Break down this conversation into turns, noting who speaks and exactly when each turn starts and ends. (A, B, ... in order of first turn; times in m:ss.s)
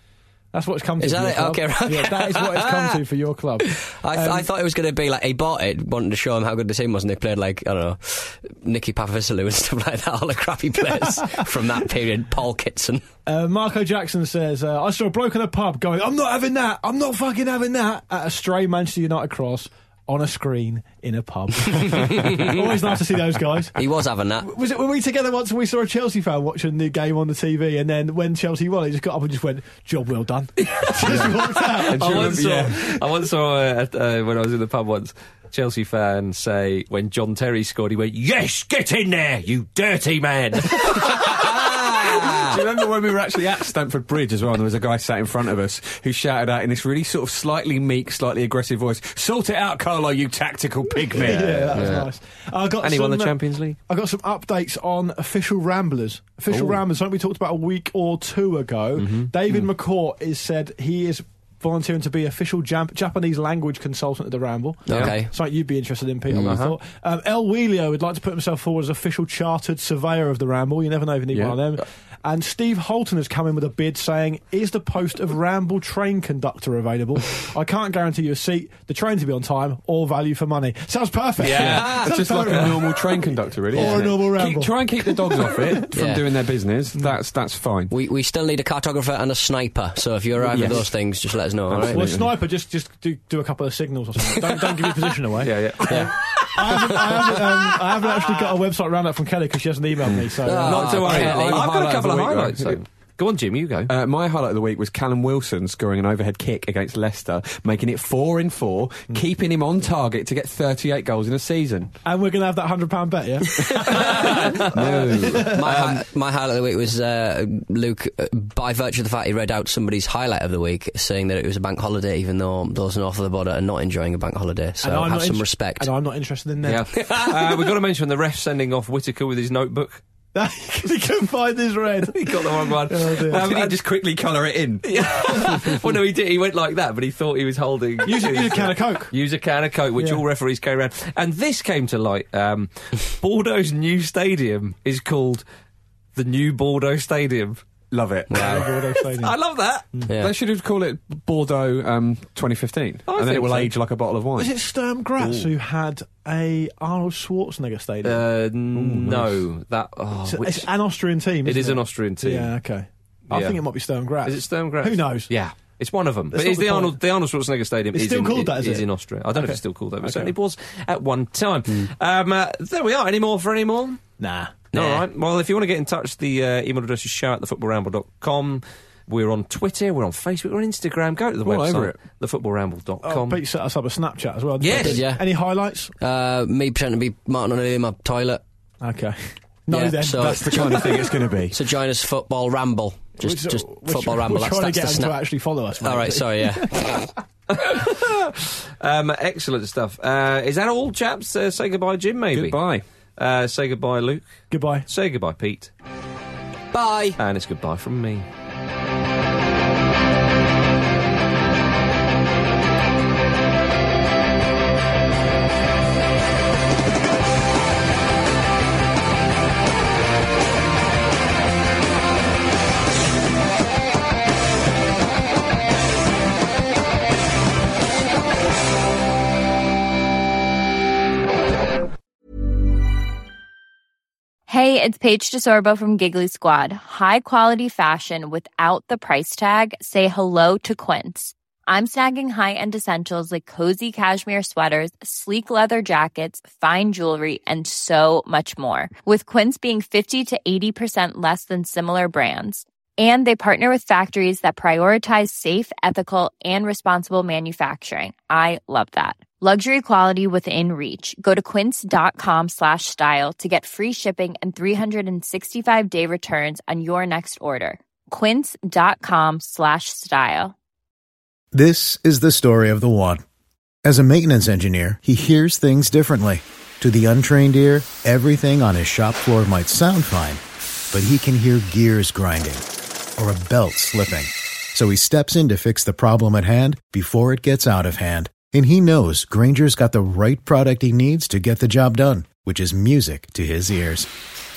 0:00.5-0:04.5 A
0:01.0-0:03.0 B
0:03.7-0:13.0 B
0:10.9-0:11.2 A
0:13.2-0:23.8 A
0:23.8-0:24.5 B
0:24.4-0:32.3 A
0:30.7-0:41.4 C
0:31.0-0:33.0 D
0:41.4-0:52.0 D
0:42.0-0:42.3 C
0:51.1-1:23.2 A
0:51.2-0:52.1 B
0:52.8-0:53.8 C
0:56.5-0:56.8 B
0:59.0-0:59.3 C
1:04.9-1:05.3 B
1:06.3-1:06.8 C
1:11.3-1:11.6 D
1:21.4-1:22.7 C
1:21.4-1:27.9 D
1:23.7-1:25.8 A
1:25.9-1:26.2 B
1:27.9-1:32.1 B
1:30.4-1:30.8 A
1:30.5-1:30.9 D
1:31.7-1:32.4 D
1:31.9-1:40.8 A
1:35.4-1:36.1 C
1:35.8-1:37.4 B
1:40.0-1:42.8 D
1:40.4-1:41.6 B
1:40.6-1:43.9 C
1:43.9-1:51.9 D
1:52.0-1:54.6 A
1:53.9-1:54.7 C
1:54.2-1:55.6 D
1:55.2-1:55.5 A
1:55.5-2:05.9 B
1:55.6-1:56.0 C
2:04.8-2:06.9 A
2:06.6-2:10.0 C
2:10.3-2:13.5 A
2:12.0-2:13.8 C
2:13.2-2:14.8 D
2:14.8-2:25.4 C
2:18.0-2:19.1 A
2:20.0-2:20.2 A
2:26.2-2:27.6 C
2:27.9-2:28.7 D
2:28.3-2:29.3 A
2:28.4-2:29.9 C
2:30.1-2:30.3 B
2:30.2-2:34.5 D
2:33.1-2:33.7 C
2:34.4-2:38.2 A
2:35.2-2:35.5 C
2:38.0-2:40.7 C
2:38.7-2:39.4 D
2:40.2-2:45.3 A
2:41.4-2:42.5 C
2:43.3-2:43.6 C
2:44.2-2:54.0 C
2:46.3-2:47.0 A
2:47.9-2:50.3 A
2:54.2-2:54.5 A
2:54.7-2:55.0 B
2:54.7-3:03.4 C
3:01.4-3:02.0 D
3:03.0-3:05.9 A
3:04.6-3:05.0 C
3:04.7-3:05.2 B
3:06.0-3:08.4 B
3:08.8-3:10.9 A
3:09.7-3:15.1 B
3:10.0-3:11.6 D
3:13.2-3:16.8 A
3:15.8-3:17.1 B
3:17.5-3:22.6 C
3:22.3-3:22.8 D
3:23.2-3:25.7 C
3:24.5-3:24.9 A
3:26.7-3:27.2 B
3:27.2-3:28.2 C
3:54.5-4:30.5 E
4:31.5-4:33.2 F
4:33.8-4:42.6 F
4:43.2-4:54.1 F